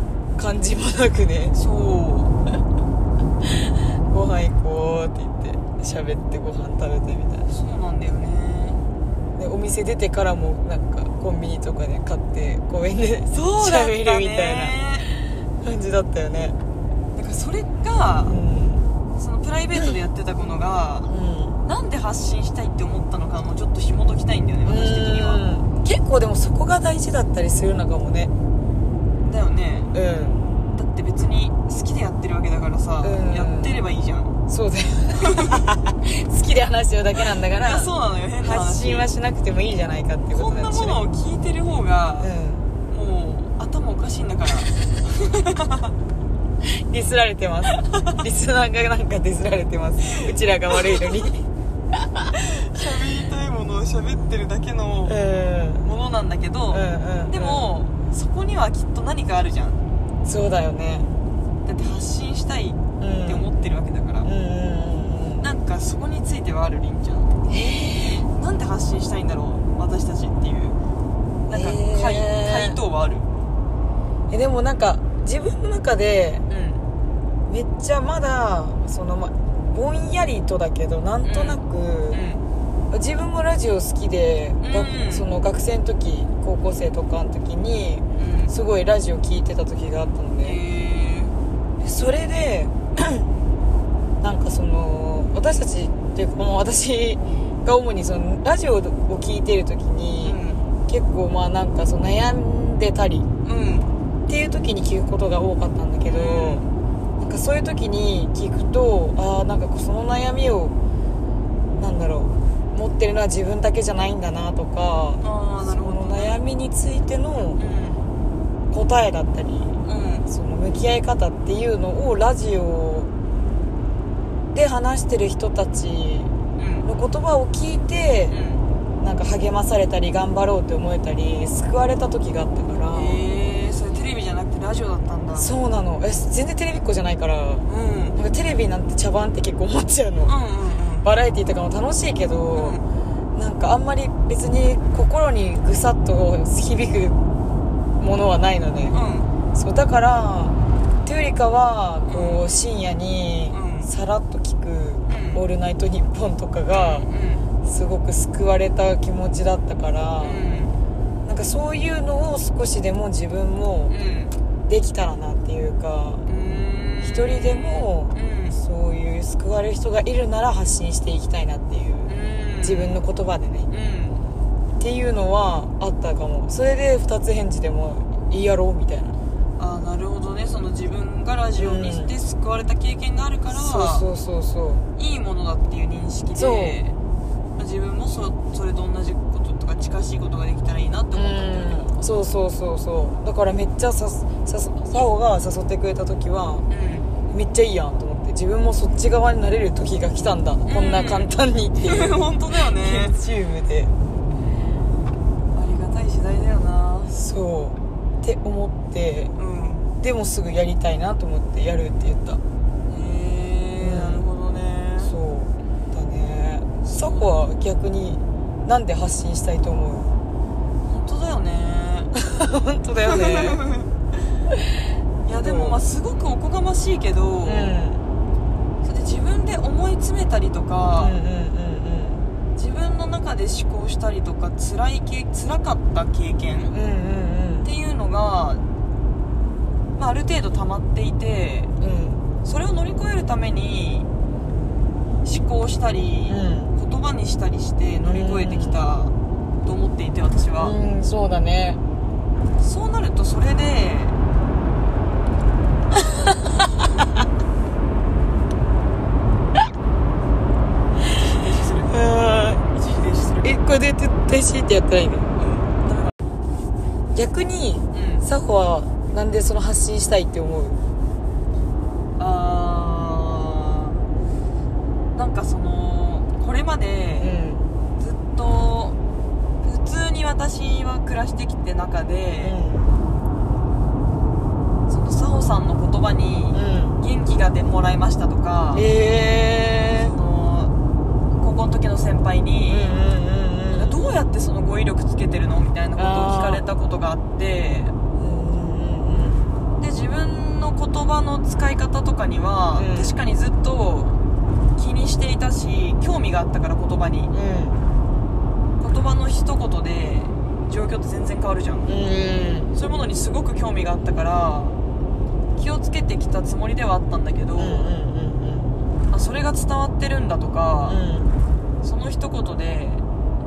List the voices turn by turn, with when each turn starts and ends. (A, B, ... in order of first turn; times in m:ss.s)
0:00.4-0:01.6 A
0:01.5-0:02.3 B
0:04.1-0:07.5 A
0:07.5-0:08.8 B
0:09.4-0:16.6 A
0:13.3-0:15.1 B
0:17.1-0:18.4 B
0:18.2-0:18.9 A
0:19.2-0:21.1 B
0:21.1-0:21.6 A
0:21.6-0:25.4 B
0:24.6-0:28.3 A
0:29.2-0:29.9 B
0:29.9-0:30.4 A
0:30.7-0:34.4 B
0:33.0-0:33.8 A
0:34.5-0:41.0 A
0:35.2-0:35.6 B
0:37.4-0:39.1 B
0:40.3-0:42.3 B
0:42.2-0:42.6 A
0:42.9-0:45.9 B
0:46.6-0:51.4 A
0:47.7-0:48.1 B
0:50.7-0:51.2 B
0:52.3-0:55.2 B
0:55.0-0:55.8 A
0:55.8-0:59.8 B
0:56.7-0:57.7 A
1:00.2-1:01.1 A
1:01.6-1:04.3 B
1:03.0-1:03.5 A
1:04.2-1:05.5 A
1:05.4-1:07.3 B
1:07.5-1:08.2 A
1:08.3-1:10.8 B
1:11.5-1:12.8 A
1:11.5-1:13.3 B
1:14.3-1:16.4 A
1:16.5-1:16.8 B
1:17.5-1:22.2 A
1:21.2-1:22.4 B
1:22.9-1:30.6 A
1:24.6-1:25.3 B
1:28.2-1:28.5 B
1:30.4-1:31.3 B
1:31.8-1:33.3 A
1:34.2-1:43.3 A
1:40.2-1:40.6 B
1:43.4-1:43.9 B
1:44.3-1:46.6 A
1:46.0-1:46.7 B
1:47.2-1:50.8 A
1:51.8-1:57.6 A
1:55.2-1:56.3 B
1:57.6-1:58.0 B
1:58.7-2:03.1 A
1:59.8-2:00.3 B
2:04.5-2:06.3 A
2:06.6-2:06.9 B
2:06.8-2:08.4 A
2:08.3-2:08.6 B
2:09.0-2:13.2 A
2:12.9-2:15.5 B
2:15.4-2:20.3 A
2:17.7-2:18.2 B
2:20.2-2:21.1 B
2:21.0-2:22.8 A
2:22.5-2:22.8 B
2:23.3-2:27.2 A
2:28.0-2:29.0 A
2:28.9-2:29.3 B
2:29.5-2:37.1 A
2:32.1-2:32.4 B
2:33.5-2:33.9 B
2:35.1-2:35.4 B
2:36.7-2:37.5 B
2:37.6-2:40.4 A
2:40.2-2:40.8 B
2:41.2-2:44.0 A
2:43.9-2:44.3 B
2:44.7-2:46.2 A
2:46.2-2:48.6 B
2:47.0-2:53.7 A
2:52.0-2:53.0 B
2:53.7-2:54.3 B
2:54.8-2:59.2 A
2:59.6-3:04.1 B
3:01.6-3:02.1 A
3:03.5-3:04.8 A
3:05.0-3:07.0 B
3:06.3-3:06.8 A
3:07.6-3:12.0 B
3:11.1-3:16.6 A
3:16.7-3:17.1 B
3:17.3-3:23.9 A
3:20.7-3:23.2 B
3:25.5-3:27.1 B
3:27.1-3:29.3 A
3:29.4-3:29.9 B
3:30.0-3:32.4 A
3:32.9-3:35.1 B
3:33.8-3:34.3 A
3:35.0-3:40.1 A
3:36.8-3:37.4 B
3:40.9-3:42.1 B
3:42.1-3:43.6 A
3:43.0-3:43.9 B
3:45.2-3:47.8 B
3:45.3-3:45.8 A
3:47.4-3:48.0 A
3:48.8-3:51.2 B
3:51.0-3:52.2 A
3:52.6-3:56.7 B
3:56.7-3:57.7 A
3:57.6-3:58.6 B
4:00.0-4:01.7 B
4:01.8-4:02.2 A
4:02.4-4:04.1 B
4:05.2-4:10.8 B
4:06.3-4:06.7 A
4:08.0-4:08.8 A
4:10.6-4:11.8 A
4:12.6-4:14.2 B
4:16.0-4:16.6 A
4:21.1-4:23.6 B
4:21.9-4:22.6 A
4:23.4-4:25.3 A
4:25.4-4:26.1 B
4:27.1-4:30.8 A
4:27.9-4:28.2 B
4:32.2-4:34.0 B
4:35.1-4:37.3 B
4:37.2-4:37.7 A
4:38.0-4:39.0 B
4:39.6-4:42.6 B
4:42.4-4:43.0 A
4:44.9-4:48.9 B
4:46.5-4:47.0 A
4:48.7-4:50.1 A
4:49.9-4:50.7 B
4:51.4-4:53.0 B
4:52.7-4:54.0 A
4:53.7-4:57.9 B
4:56.0-4:56.6 A
4:58.2-4:59.4 A
4:59.8-5:04.2 B
5:02.7-5:03.2 A
5:04.8-5:07.3 B
5:07.3-5:07.8 A
5:08.8-5:11.9 B
5:11.8-5:12.7 A
5:12.7-5:14.8 B
5:15.6-5:17.9 B
5:17.6-5:18.7 A
5:19.1-5:21.0 B
5:20.9-5:21.3 A
5:21.8-5:23.0 B